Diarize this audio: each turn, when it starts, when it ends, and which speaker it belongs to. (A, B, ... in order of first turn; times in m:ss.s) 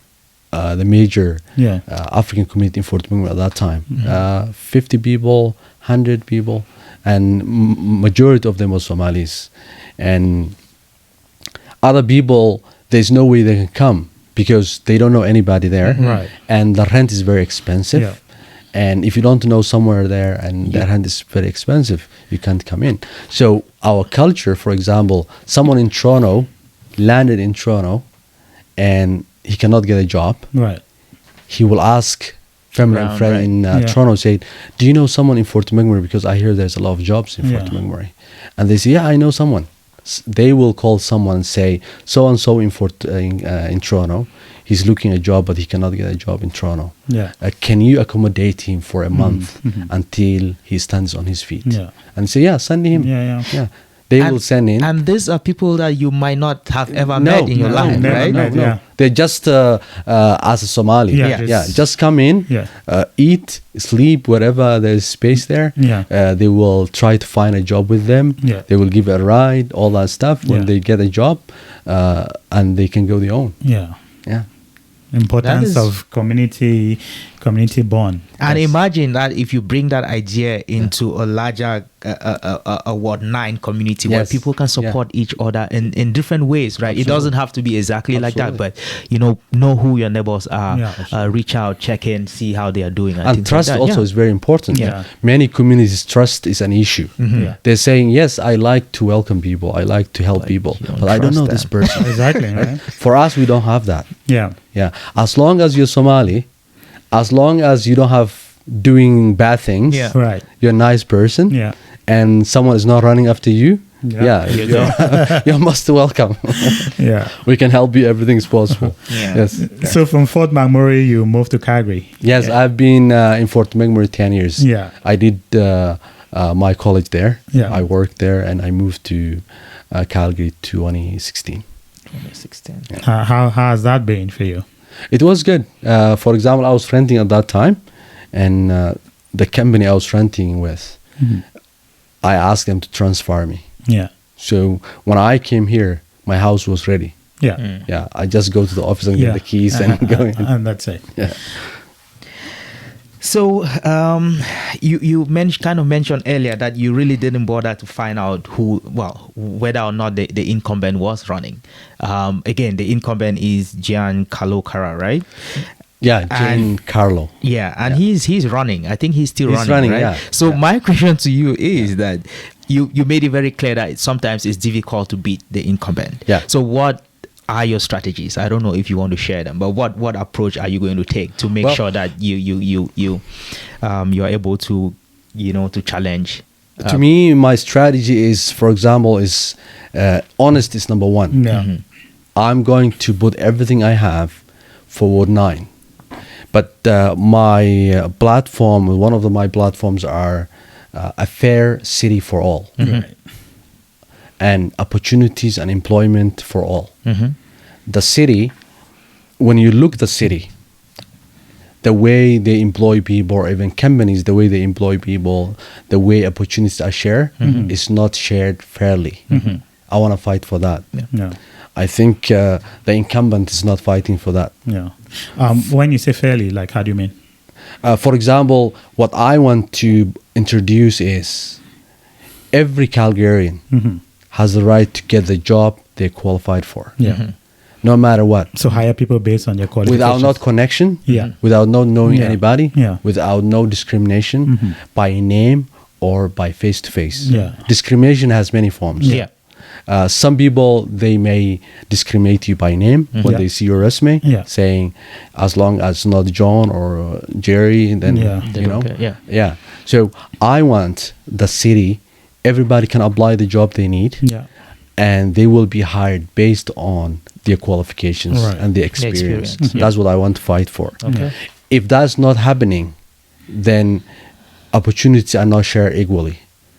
0:00.5-0:10.6 A
0:01.6-0:01.8 B
0:11.8-0:18.2 A
0:15.9-0:16.2 C
0:16.0-0:16.3 B
0:18.7-0:28.1 A
0:28.8-0:30.5 A
0:30.5-0:30.8 B
0:31.5-0:54.9 A
0:32.8-0:33.5 C
0:33.7-0:34.0 B
0:37.4-0:37.8 B
0:47.1-0:47.3 B
0:49.1-0:49.9 B
0:51.6-0:51.9 B
0:52.9-0:53.5 B
0:54.2-0:58.5 C
0:57.1-1:13.6 A
0:57.5-0:58.8 B
1:01.1-1:01.9 B
1:01.2-1:01.5 C
1:05.8-1:06.1 B
1:13.6-1:14.0 B
1:15.1-1:18.6 B
1:15.4-1:15.9 C
1:18.4-1:34.1 C
1:24.1-1:25.0 A
1:26.9-1:27.3 A
1:28.1-1:28.6 A
1:30.7-1:31.0 B
1:33.2-1:44.1 A
1:34.7-1:35.1 B
1:37.2-1:37.6 C
1:40.4-1:42.5 C
1:41.9-1:42.8 B
1:44.3-1:44.6 B
1:44.7-1:46.5 A
1:47.1-2:00.0 A
1:49.9-1:50.2 C
1:50.1-1:50.4 B
1:51.5-1:51.8 B
1:54.0-1:55.4 B
1:54.5-1:55.0 C
1:56.9-1:57.4 B
1:59.1-1:59.4 C
1:59.6-2:02.2 B
2:02.2-2:11.6 A
2:04.6-2:04.9 B
2:07.5-2:07.8 B
2:12.1-2:12.9 C
2:13.0-2:14.6 B
2:15.1-2:17.8 A
2:18.3-2:21.0 A
2:21.2-2:21.4 B
2:22.2-2:23.6 A
2:24.4-2:27.1 A
2:27.6-2:27.9 C
2:27.9-2:30.5 A
2:29.2-2:31.1 B
2:31.2-2:31.5 A
2:33.2-2:45.6 C
2:46.0-2:48.0 A
2:46.3-2:46.7 C
2:47.4-3:07.0 C
2:49.5-2:50.6 A
3:06.8-3:11.4 A
3:11.3-3:11.7 B
3:11.5-3:11.8 C
3:12.4-3:15.7 A
3:16.5-3:22.8 A
3:22.8-3:23.1 C
3:22.8-3:23.1 B
3:24.4-3:26.9 A
3:27.0-3:27.4 C
3:27.9-3:28.5 A
3:29.4-3:30.5 A
3:31.8-3:39.3 A
3:37.4-3:37.7 C
3:37.4-3:37.8 B
3:39.3-3:39.6 C
3:39.3-3:39.6 B
3:39.9-3:40.8 A
3:41.1-3:41.4 B
3:41.8-3:44.5 A
3:44.7-3:47.1 B
3:47.8-3:51.6 A
3:52.5-3:53.6 A
3:53.7-3:54.0 B
3:54.3-3:57.0 A
3:57.0-3:57.3 B
3:57.0-3:57.3 C
3:57.8-3:58.5 A
3:58.5-4:00.5 B
3:59.8-4:09.2 A
4:01.1-4:01.4 B
4:02.0-4:03.0 B
4:04.5-4:04.8 B
4:07.3-4:07.6 B
4:09.0-4:09.3 B
4:09.9-4:24.2 A
4:13.1-4:13.4 C
4:14.2-4:14.5 B
4:18.1-4:18.5 B
4:18.4-4:19.2 C
4:24.2-4:24.5 B
4:25.0-4:32.9 A
4:28.3-4:28.6 B
4:29.0-4:29.9 C
4:29.6-4:29.9 B
4:31.0-4:31.3 B
4:33.5-4:34.0 A
4:34.7-4:36.4 A